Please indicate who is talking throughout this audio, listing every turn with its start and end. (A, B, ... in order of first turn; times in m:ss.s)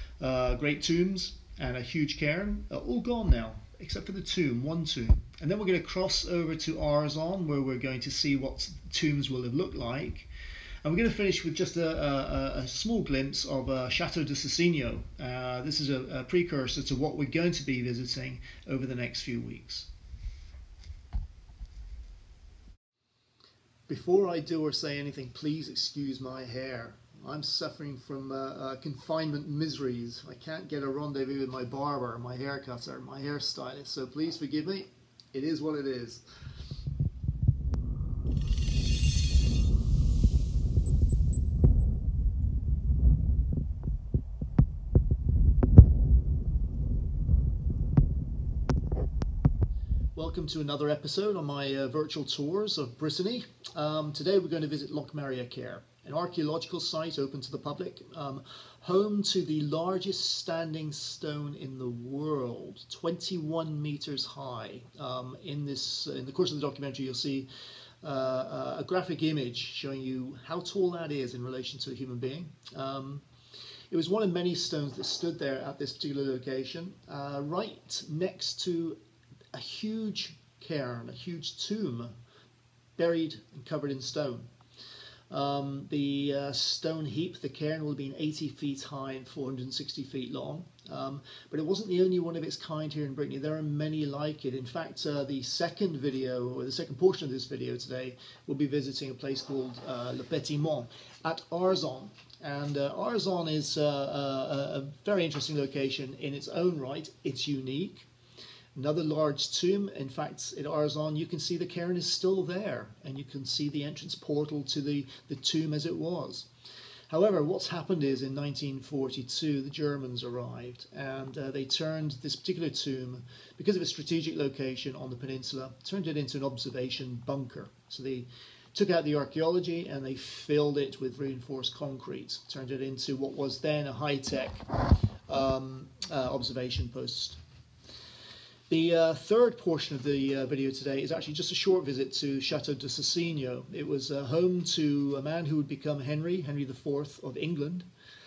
0:00.2-0:10.3 A
0:10.8-0:19.9 A
0:23.9-0:36.2 A
0:50.2-1:07.5 A
1:08.0-1:13.2 A
1:13.9-1:19.0 A
1:19.5-1:22.1 A
1:23.0-1:24.5 A
1:25.3-1:48.1 A
1:48.8-1:56.5 A
1:57.1-2:14.7 A
2:15.3-2:17.4 A
2:18.7-2:27.9 A